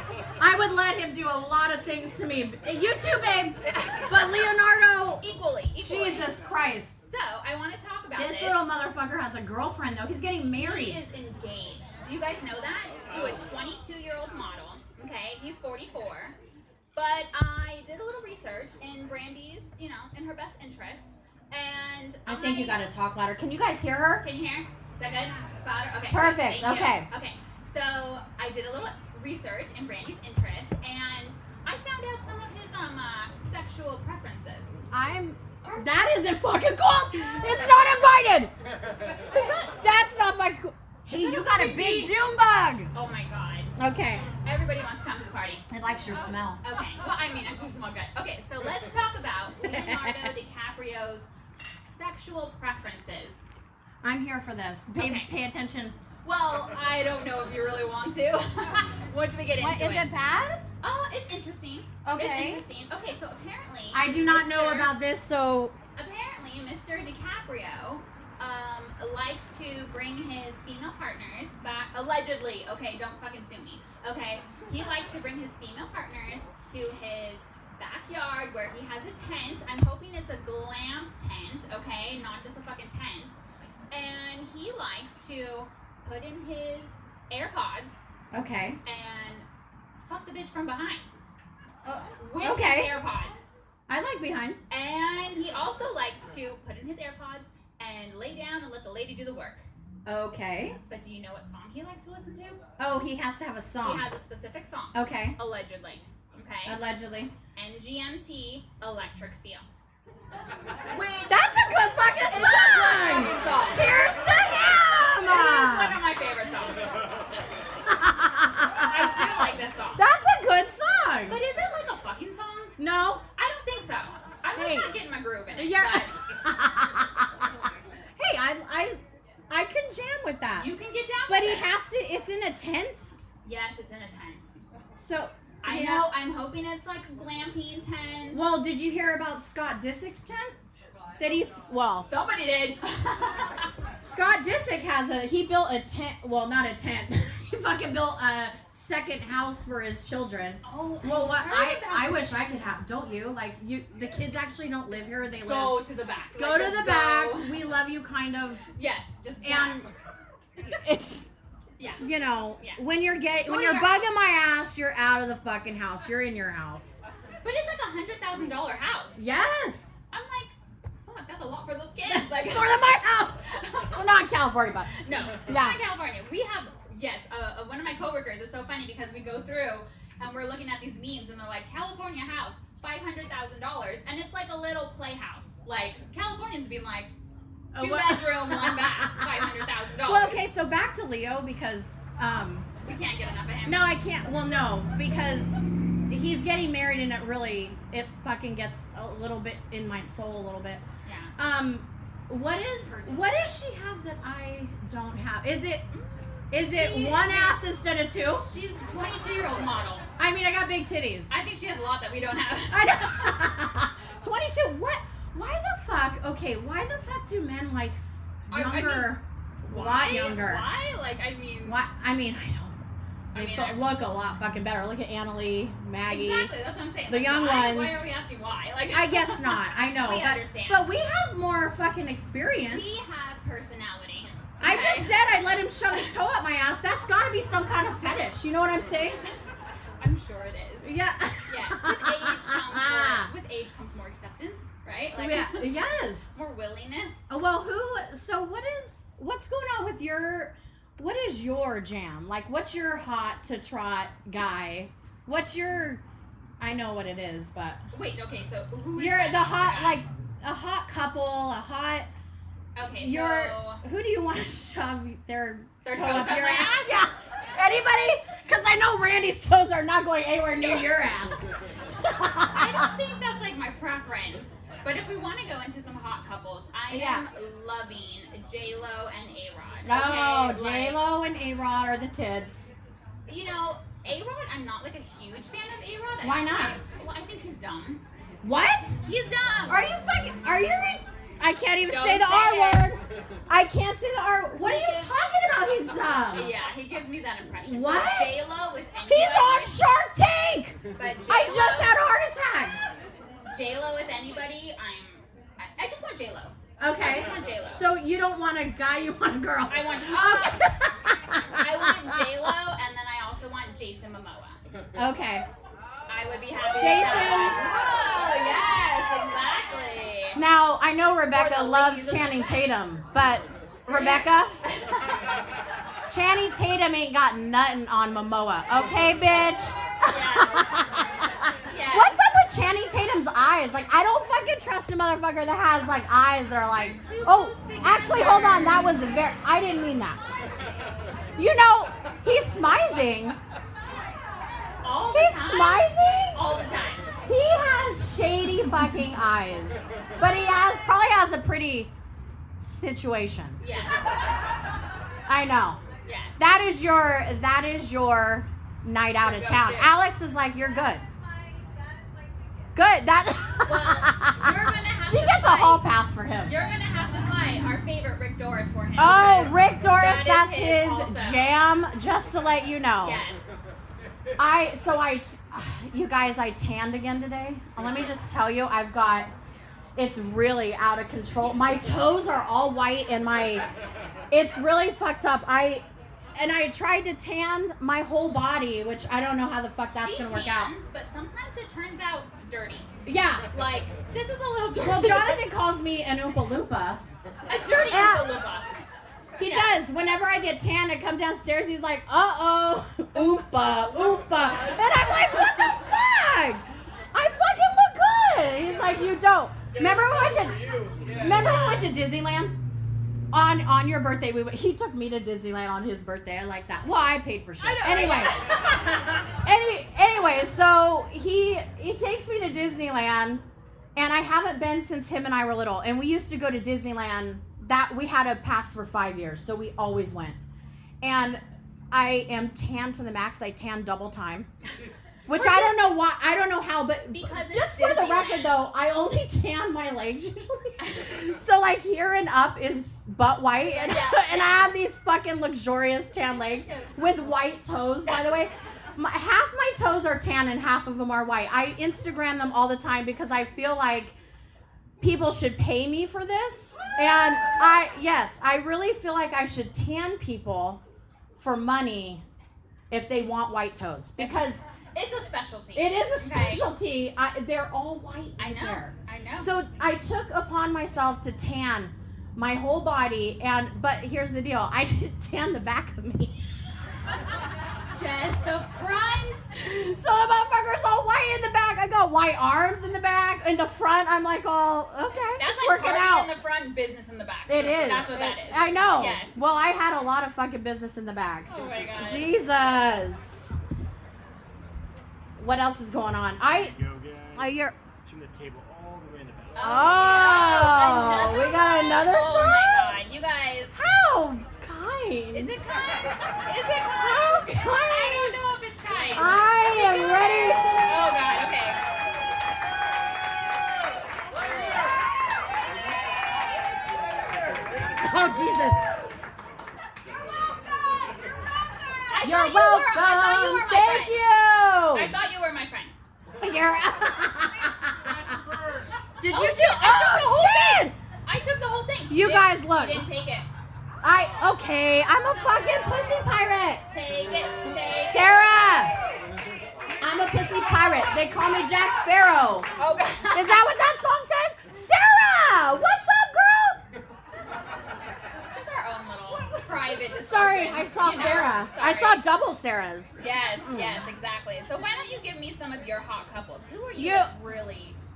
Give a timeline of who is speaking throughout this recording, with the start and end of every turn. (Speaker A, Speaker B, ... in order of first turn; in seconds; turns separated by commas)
Speaker A: 0.4-5.2, Speaker B: 3.7-4.4, Speaker B: 5.2-6.3, Speaker A: 5.8-7.0, Speaker B: 7.0-8.6, Speaker A: 8.2-11.0, Speaker B: 10.6-16.4, Speaker B: 16.9-22.8, Speaker A: 22.3-24.3, Speaker B: 24.2-34.8, Speaker A: 26.1-27.1, Speaker A: 34.9-38.5, Speaker B: 39.3-39.8, Speaker A: 39.3-42.9, Speaker B: 41.2-42.1, Speaker B: 42.9-43.7, Speaker A: 43.8-44.3, Speaker B: 44.4-45.6, Speaker A: 45.7-46.6, Speaker B: 46.6-53.4, Speaker A: 49.7-50.3, Speaker A: 54.0-56.0, Speaker B: 55.0-55.3, Speaker B: 56.2-60.1, Speaker A: 59.6-60.6, Speaker B: 60.8-64.9, Speaker A: 62.0-62.6, Speaker A: 63.9-65.8, Speaker B: 66.0-83.4, Speaker B: 83.9-88.0, Speaker A: 88.3-88.8, Speaker B: 88.8-89.5, Speaker B: 90.0-91.1, Speaker A: 91.8-93.0, Speaker B: 92.2-93.5, Speaker A: 93.9-94.6, Speaker B: 94.7-99.7, Speaker A: 100.1-100.8, Speaker B: 100.9-102.6, Speaker A: 102.8-104.1, Speaker B: 103.8-106.8, Speaker A: 104.9-105.4, Speaker A: 106.7-107.3, Speaker B: 107.6-109.7, Speaker B: 110.9-111.5, Speaker A: 111.3-116.0, Speaker B: 112.3-114.0, Speaker B: 115.2-116.9, Speaker A: 117.9-119.4, Speaker B: 118.8-120.0, Speaker A: 120.0-121.4, Speaker B: 121.3-122.7, Speaker A: 122.8-123.2, Speaker B: 123.4-126.1, Speaker A: 124.6-125.0, Speaker A: 125.6-127.3, Speaker A: 128.2-130.7, Speaker B: 130.6-131.7, Speaker A: 131.3-133.1, Speaker B: 133.4-134.6, Speaker A: 134.9-136.1, Speaker B: 135.6-138.4, Speaker A: 138.3-140.5, Speaker A: 141.2-142.1, Speaker B: 142.1-143.7, Speaker A: 144.0-155.8, Speaker B: 150.6-152.2, Speaker B: 155.4-157.6, Speaker A: 156.3-158.7, Speaker B: 158.8-159.9, Speaker A: 159.4-159.9, Speaker A: 160.6-161.3, Speaker B: 161.8-162.1, Speaker A: 162.0-167.0, Speaker B: 163.4-164.1, Speaker B: 167.4-169.3, Speaker A: 169.2-170.0, Speaker B: 170.1-170.6, Speaker B: 171.1-174.1, Speaker A: 172.1-175.8, Speaker B: 175.0-187.1, Speaker A: 187.7-189.5, Speaker B: 187.8-190.4, Speaker A: 190.0-192.7, Speaker B: 192.8-193.8, Speaker A: 193.7-200.8, Speaker B: 201.1-201.3, Speaker A: 201.4-205.9, Speaker B: 202.8-203.3, Speaker B: 205.9-207.6, Speaker A: 206.5-208.4, Speaker B: 208.4-210.1, Speaker A: 210.2-211.3, Speaker B: 211.3-213.4, Speaker A: 212.7-220.7, Speaker B: 218.5-221.8, Speaker A: 221.7-222.8, Speaker B: 223.3-223.8, Speaker A: 223.3-226.5, Speaker B: 226.1-230.8, Speaker A: 227.1-228.2, Speaker A: 228.9-232.9, Speaker B: 232.7-235.2, Speaker A: 234.6-239.2, Speaker B: 240.0-240.9, Speaker A: 240.8-243.3, Speaker B: 241.5-245.7, Speaker A: 245.1-246.4, Speaker B: 246.3-247.2, Speaker A: 247.3-256.0, Speaker A: 256.6-257.8, Speaker B: 257.9-260.0, Speaker A: 259.0-262.1, Speaker B: 262.8-263.8, Speaker A: 263.0-271.4, Speaker B: 265.8-267.1, Speaker A: 272.0-272.9, Speaker B: 272.5-281.0, Speaker A: 276.9-277.2, Speaker A: 279.9-282.7, Speaker B: 283.3-288.0, Speaker A: 286.2-286.8, Speaker A: 288.4-289.0, Speaker B: 289.0-289.9, Speaker A: 289.7-296.5, Speaker B: 291.9-292.9, Speaker B: 294.6-295.1, Speaker B: 296.3-299.8, Speaker A: 297.6-298.4, Speaker A: 299.1-302.8, Speaker B: 300.9-302.0, Speaker B: 303.5-307.9, Speaker A: 306.8-312.3, Speaker B: 309.7-310.7, Speaker B: 311.5-314.6, Speaker A: 315.0-315.5, Speaker B: 316.1-320.4, Speaker A: 316.7-317.6, Speaker A: 320.4-324.6, Speaker B: 321.3-322.7, Speaker B: 323.9-325.3, Speaker A: 326.1-340.2, Speaker B: 330.1-330.8, Speaker B: 331.7-332.2, Speaker B: 336.8-339.0, Speaker A: 341.4-343.4, Speaker B: 344.8-347.1, Speaker A: 345.1-346.4, Speaker A: 347.3-351.9, Speaker A: 352.6-353.6, Speaker B: 353.6-354.1, Speaker A: 355.3-355.8, Speaker B: 356.1-356.4, Speaker A: 356.4-361.1, Speaker B: 359.2-359.9, Speaker A: 362.8-366.5, Speaker B: 363.7-365.9, Speaker B: 366.4-371.4, Speaker A: 369.0-373.2, Speaker B: 373.0-373.5, Speaker A: 374.4-379.3, Speaker A: 380.0-383.7, Speaker B: 381.4-382.2, Speaker A: 384.3-390.7, Speaker B: 389.9-392.9, Speaker A: 393.1-393.5, Speaker B: 393.5-395.4, Speaker A: 394.8-397.0, Speaker B: 397.5-398.8, Speaker A: 397.9-398.3, Speaker A: 399.4-412.6, Speaker B: 399.4-399.8, Speaker B: 405.1-405.4, Speaker C: 409.8-411.3, Speaker B: 411.1-411.9, Speaker A: 413.3-418.3, Speaker B: 417.6-419.3, Speaker A: 419.4-423.4, Speaker A: 424.0-430.4, Speaker A: 431.0-434.5, Speaker A: 435.3-454.2, Speaker B: 435.3-435.9, Speaker B: 437.1-438.6, Speaker B: 440.8-441.3, Speaker B: 443.6-444.7, Speaker A: 455.0-460.8, Speaker A: 461.4-462.2, Speaker A: 462.9-464.6, Speaker B: 464.9-466.6, Speaker A: 465.8-476.4, Speaker B: 468.4-469.5, Speaker B: 477.9-479.5, Speaker A: 479.6-486.3, Speaker B: 485.4-489.4, Speaker A: 487.5-493.5, Speaker B: 491.5-492.3, Speaker A: 495.4-496.8, Speaker C: 496.4-499.8, Speaker A: 497.4-497.8, Speaker B: 499.6-503.8, Speaker A: 499.6-502.8, Speaker A: 503.8-505.7, Speaker B: 505.3-511.8, Speaker A: 507.0-508.4, Speaker A: 509.1-511.0, Speaker A: 518.0-518.9, Speaker B: 522.1-524.2, Speaker A: 522.2-525.1, Speaker B: 524.9-526.0, Speaker A: 526.4-528.2, Speaker A: 529.2-531.0, Speaker B: 529.3-533.5, Speaker A: 532.1-533.1, Speaker A: 534.0-536.8, Speaker B: 535.4-536.0, Speaker B: 536.9-538.3, Speaker A: 538.0-539.0, Speaker A: 540.0-542.7, Speaker B: 542.8-543.6, Speaker A: 543.3-546.8, Speaker B: 548.5-552.2, Speaker A: 550.3-554.0, Speaker B: 553.2-558.0, Speaker A: 557.0-557.3